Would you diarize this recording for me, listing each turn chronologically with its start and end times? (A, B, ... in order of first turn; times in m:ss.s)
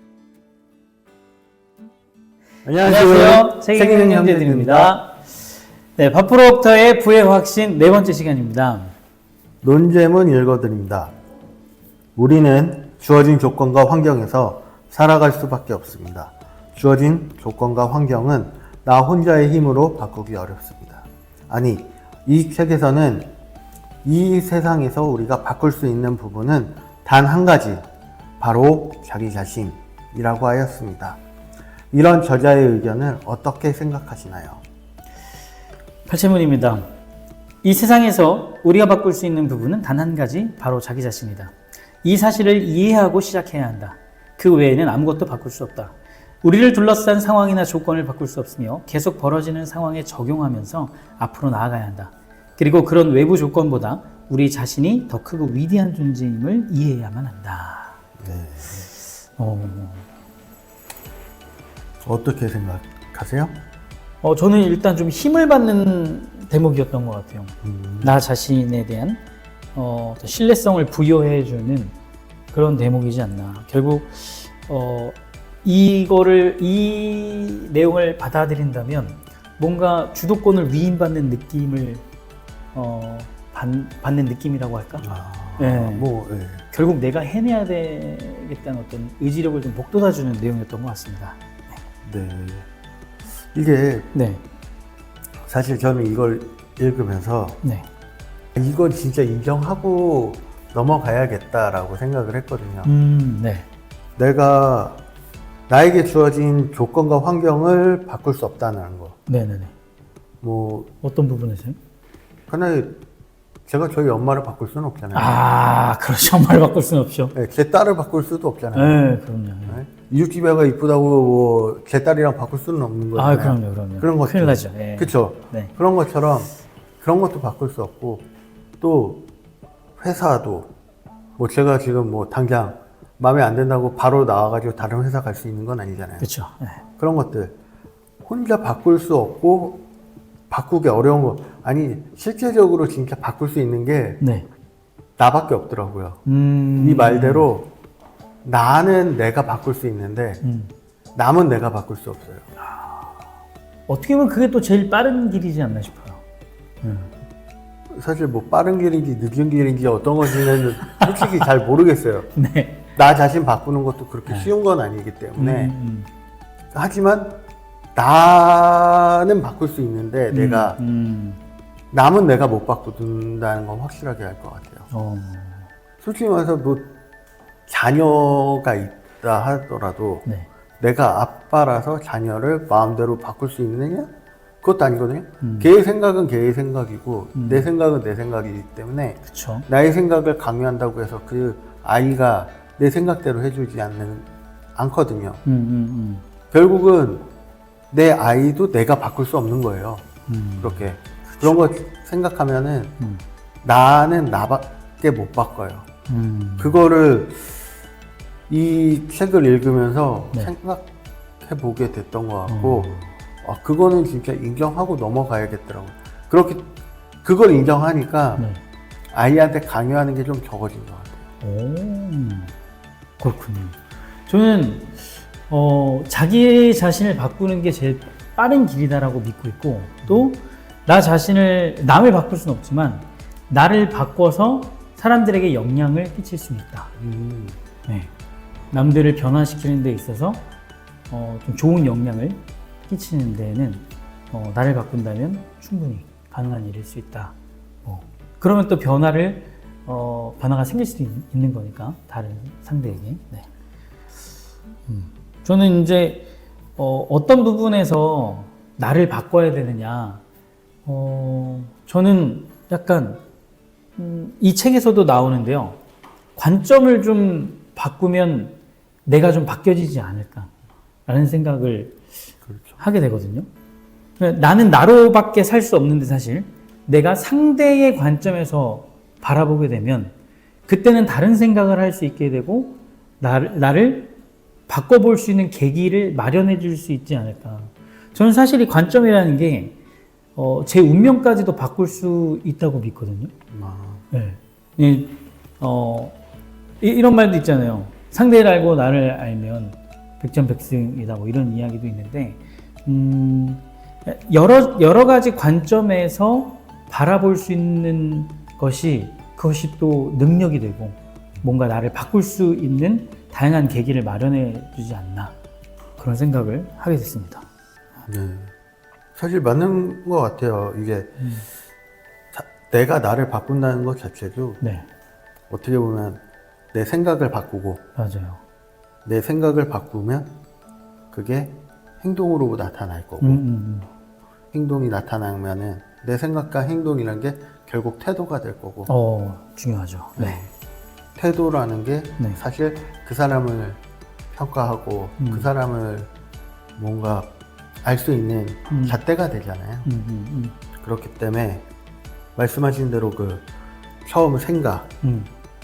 0:02.6-0:05.0 A
0:02.8-0:05.4 B
0:06.0-0:08.9 B
0:09.6-0:11.2 A
0:12.2-0:23.3 A
0:24.0-0:27.8 A
0:28.4-0:31.2 A
0:31.9-0:34.6 A
0:36.1-0:36.9 B
0:37.6-0:58.0 B
0:58.2-0:58.9 A
0:59.4-1:00.1 B
1:02.0-1:03.6 A
1:04.2-1:09.2 B
1:07.6-1:08.2 A
1:09.8-1:12.0 B
1:12.5-1:22.0 B
1:22.7-1:25.1 B
1:25.0-1:26.6 A
1:25.6-1:26.1 B
1:26.7-1:31.4 B
1:32.0-1:32.7 A
1:33.5-1:34.1 A
1:34.1-1:34.4 B
1:35.5-1:37.6 A
1:38.6-1:42.9 A
1:42.8-1:43.7 B
1:44.2-1:45.0 A
1:45.7-1:49.2 A
1:49.3-1:49.7 B
1:50.4-1:50.9 A
1:51.0-1:51.8 B
1:52.5-1:53.0 A
1:53.7-1:55.4 A
1:55.1-1:57.3 B
1:57.3-1:59.1 A
1:58.7-1:59.8 B
1:59.7-2:08.2 A
2:03.2-2:05.7 B
2:08.8-2:09.3 A
2:10.0-2:10.7 A
2:11.4-2:16.3 A
2:16.2-2:16.8 B
2:17.0-2:17.6 A
2:18.2-2:19.8 A
2:20.5-2:24.2 A
2:24.2-2:24.5 B
2:25.2-2:26.2 A
2:26.2-2:27.5 B
2:26.8-2:27.7 A
2:28.4-2:30.4 A
2:30.4-2:30.7 B
2:31.2-2:32.5 A
2:32.8-2:33.1 B
2:33.9-2:36.2 B
2:36.8-2:37.1 B
2:37.9-2:42.3 A
2:40.8-2:41.1 B
2:42.4-2:42.8 B
2:43.0-2:45.7 A
2:45.4-2:46.1 B
2:46.7-2:47.4 A
2:48.0-2:50.8 A
2:50.3-2:51.4 B
2:51.9-2:54.9 A
2:54.9-2:55.7 B
2:56.0-2:56.9 A
2:57.7-3:00.3 A
3:00.8-3:04.1 A
3:04.6-3:15.4 A
3:05.4-3:05.7 B
3:07.4-3:07.7 B
3:09.3-3:09.7 B
3:15.4-3:16.2 B
3:16.5-3:17.3 A
3:17.9-3:20.0 A
3:20.3-3:21.6 B
3:20.6-3:23.0 A
3:23.6-3:25.9 A
3:26.1-3:26.8 B
3:26.6-3:27.6 A
3:28.5-3:30.9 A
3:31.4-3:36.7 A
3:32.5-3:33.1 B
3:37.2-3:38.5 A
3:39.1-3:41.2 A
3:41.4-3:42.5 B
3:43.2-3:56.9 B
3:57.0-3:57.6 A
3:58.7-4:00.5 B
4:01.1-4:07.3 B
4:07.8-4:13.5 B
4:14.9-4:20.2 B
4:20.8-4:23.2 B
4:24.0-4:25.8 B
4:26.4-4:30.5 B
4:31.1-4:32.0 B
4:32.5-4:32.8 A
4:32.8-4:33.5 B
4:34.2-4:40.1 B
4:40.7-4:44.1 B
4:44.7-4:49.8 B
4:50.4-4:53.3 B
4:53.5-4:54.0 A
4:54.1-4:56.2 B
4:56.8-5:15.3 B
5:16.0-5:17.5 B
5:18.1-5:18.5 A
5:19.2-5:21.2 A
5:21.2-5:21.5 B
5:22.3-5:24.6 A
5:24.6-5:24.9 B
5:25.5-5:26.2 A
5:26.7-5:27.8 A
5:28.0-5:28.4 B
5:29.0-5:30.3 A
5:31.1-5:33.4 A
5:33.2-5:33.9 B
5:34.5-5:38.9 A
5:38.9-5:40.4 B
5:40.2-5:40.5 A
5:41.2-5:43.8 A
5:44.3-5:46.1 A
5:45.2-5:45.5 B
5:46.8-5:49.9 A
5:48.7-5:49.0 B
5:49.8-5:50.6 B
5:50.8-5:51.6 A
5:52.4-5:53.5 A
5:54.0-5:54.9 A
5:55.0-5:55.3 B